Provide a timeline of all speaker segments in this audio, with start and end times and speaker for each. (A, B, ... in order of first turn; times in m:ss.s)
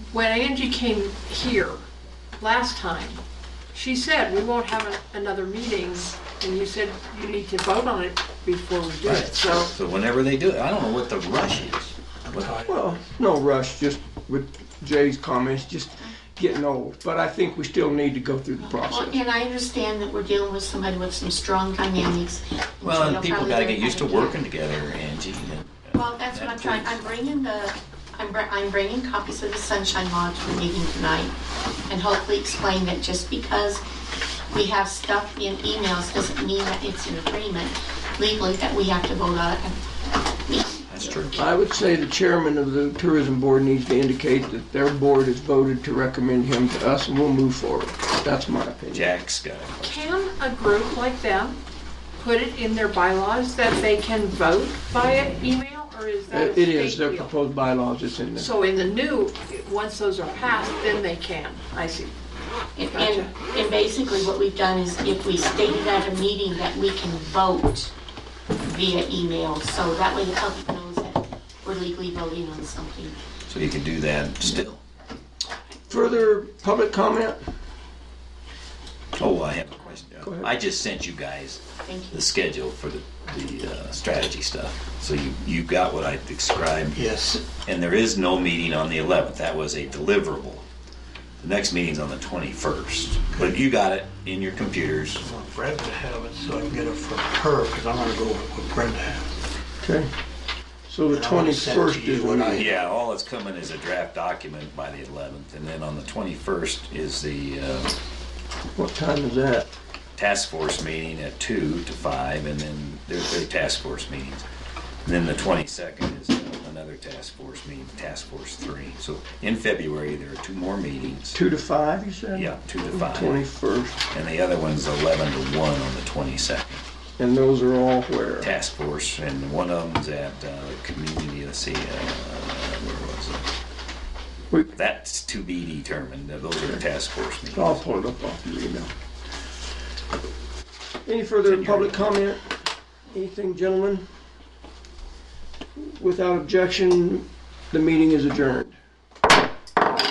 0:00.1-0:01.8 A
0:02.4-0:03.2 A
0:03.7-0:09.7 A
0:09.0-0:12.5 B
0:12.3-0:12.9 C
0:12.7-0:19.2 D
0:18.6-0:24.4 E
0:22.8-0:27.0 B
0:25.9-0:31.3 E
0:31.9-0:33.8 E
0:34.5-0:39.8 E
0:40.5-0:41.3 E
0:40.9-0:41.5 B
0:41.3-0:49.1 D
0:48.9-0:50.0 B
0:49.8-0:51.6 A
0:52.2-0:57.3 A
0:56.3-0:58.5 D
0:58.4-1:02.1 A
1:02.8-1:07.9 E
1:02.9-1:03.3 A
1:08.6-1:13.2 E
1:13.5-1:14.8 B
1:15.7-1:16.1 E
1:15.9-1:17.4 D
1:19.2-1:27.0 B
1:20.2-1:20.5 D
1:21.8-1:22.3 E
1:26.9-1:27.5 C
1:27.6-1:30.6 B
1:31.4-1:35.2 B
1:35.2-1:39.3 C
1:39.8-1:40.1 D
1:40.9-1:42.7 D
1:41.1-1:42.8 C
1:42.6-1:47.9 B
1:48.8-1:49.7 D
1:50.2-1:54.4 B
1:55.0-2:01.4 B
2:01.3-2:04.0 D
2:02.3-2:03.4 B
2:04.1-2:06.8 B
2:07.2-2:08.5 D
2:08.4-2:13.4 B
2:14.7-2:17.8 B
2:17.5-2:18.9 D
2:21.0-2:22.5 D
2:21.4-2:22.2 B
2:23.1-2:24.1 D
2:25.8-2:28.8 D